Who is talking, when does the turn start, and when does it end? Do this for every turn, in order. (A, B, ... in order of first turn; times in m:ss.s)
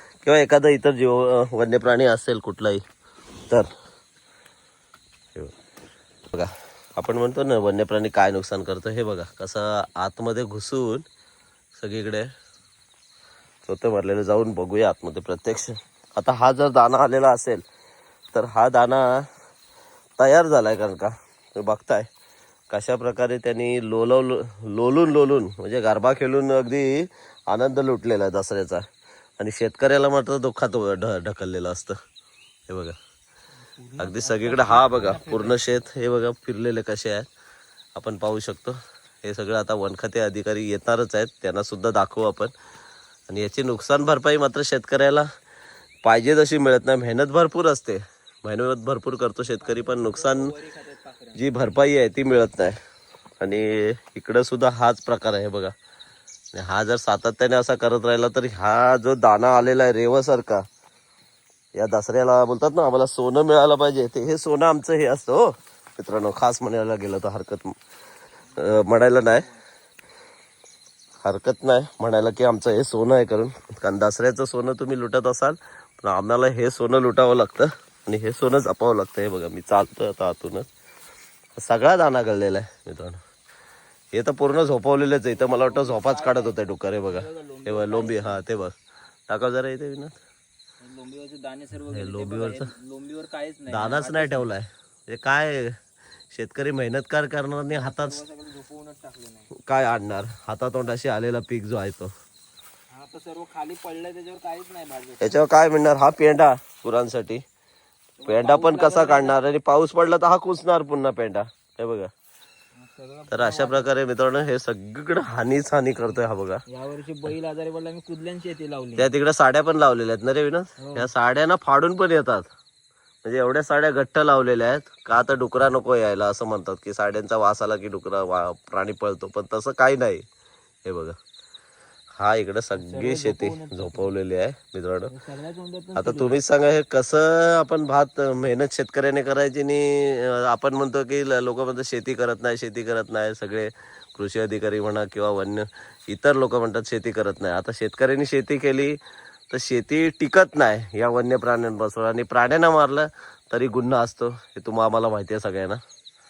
0:00.2-0:02.8 A
0:06.3-0:11.0 A
0:11.7-0:12.3 A
0:13.6-0:17.6 A
0:18.3-0:19.3 A
0:20.2-0:22.1 A
0:22.7-0:28.8 A
0:29.4-0:32.0 A
0:32.7-0:33.0 A
0:33.8-0:35.6 B
0:34.0-0:37.3 A
0:38.0-0:42.5 A
0:43.3-0:45.3 A
0:46.0-0:50.5 A
0:49.4-0:51.5 B
0:51.3-0:52.8 A
0:53.4-0:55.7 A
0:56.5-1:00.6 A
1:01.7-1:07.7 A
1:08.5-1:09.6 B
1:08.6-1:09.5 A
1:11.2-1:20.7 A
1:21.6-1:23.2 A
1:24.1-1:28.8 A
1:25.3-1:28.4 B
1:29.3-1:30.1 A
1:30.8-1:34.5 B
1:31.8-1:32.7 A
1:33.7-1:38.2 A
1:37.7-1:39.5 B
1:39.5-1:42.1 A
1:42.9-1:45.4 B
1:45.2-1:47.4 A
1:48.2-1:49.4 B
1:48.2-1:52.1 A
1:52.8-1:53.9 B
1:53.3-1:56.6 A
1:56.7-1:59.1 B
1:59.0-2:02.5 A
2:00.8-2:01.1 B
2:03.2-2:10.2 A
2:10.8-2:11.2 A
2:12.1-2:15.1 A
2:12.8-2:14.1 B
2:15.1-2:16.4 B
2:15.9-2:35.8 A